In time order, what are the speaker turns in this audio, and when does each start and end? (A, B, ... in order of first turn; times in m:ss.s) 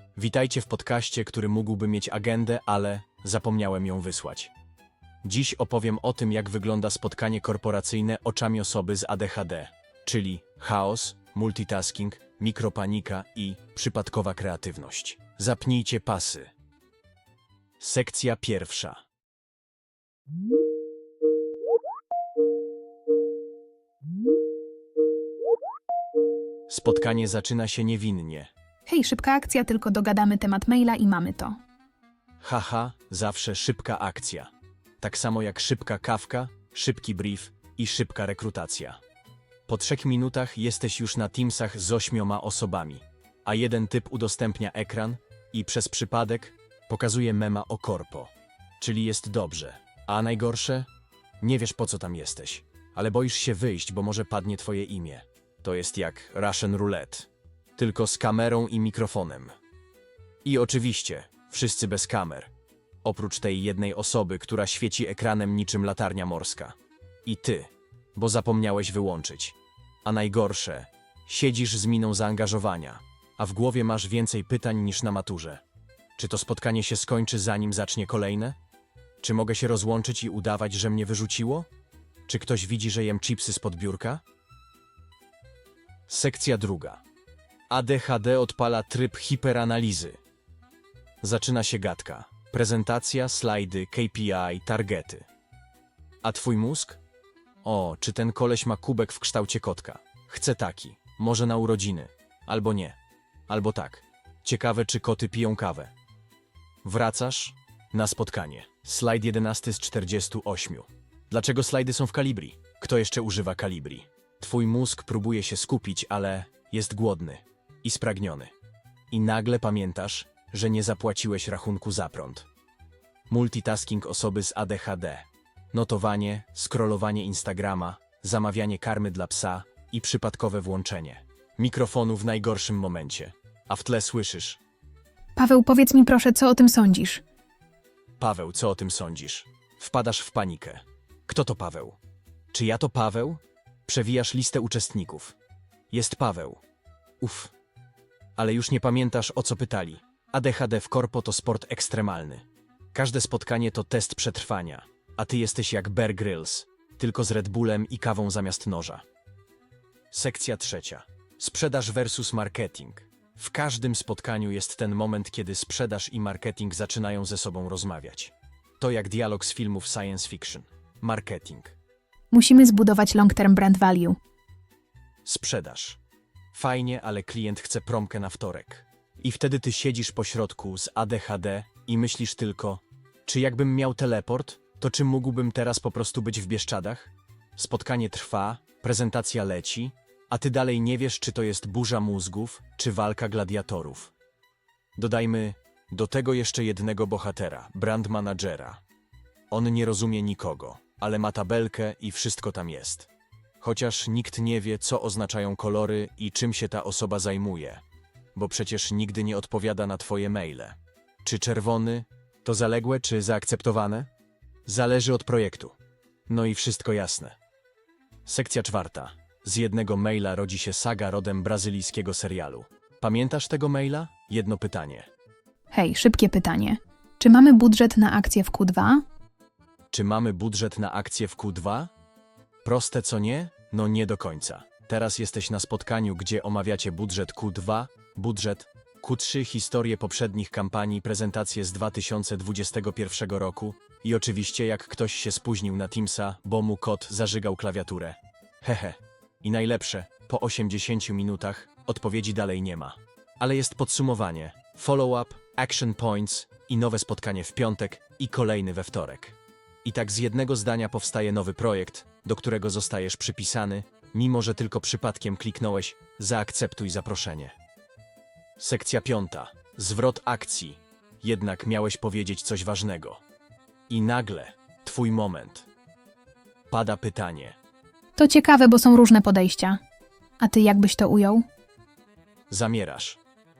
0:00.2-0:04.5 A
0:05.2-0:16.5 A
0:17.8-0:19.0 A
0:26.7-0:28.5 A
0:28.9-0:31.5 B
0:32.4-0:39.0 A
0:39.7-0:50.9 A
0:51.4-0:59.5 A
1:00.4-1:02.5 A
1:03.0-1:15.6 A
1:16.2-1:18.6 A
1:19.2-1:21.7 A
1:22.3-1:24.2 A
1:26.1-1:27.0 A
1:27.7-1:30.2 A
1:31.2-1:35.3 A
1:36.2-1:37.0 A
1:37.6-1:45.9 A
1:46.8-1:58.5 A
1:59.1-2:02.5 A
2:03.3-2:14.6 A
2:15.4-2:17.2 B
2:18.2-2:22.0 A
2:22.5-2:25.4 A
2:25.9-2:26.6 A
2:27.2-2:27.5 A
2:28.4-2:39.0 A
2:40.1-2:51.8 A
2:52.3-2:54.2 B
2:55.2-2:56.0 A
2:56.5-3:14.1 A
3:15.0-3:18.8 A
3:19.5-3:23.1 A
3:23.6-3:27.8 A
3:28.3-3:34.1 A
3:34.6-3:35.7 A
3:36.3-3:37.3 A
3:38.2-3:45.1 A
3:45.7-3:49.0 B
3:49.9-3:51.9 A
3:52.6-4:27.5 A
4:28.6-4:33.2 A
4:33.9-4:35.7 A
4:36.7-4:37.6 A
4:38.2-4:39.8 B
4:40.4-4:41.4 B
4:42.5-4:43.2 A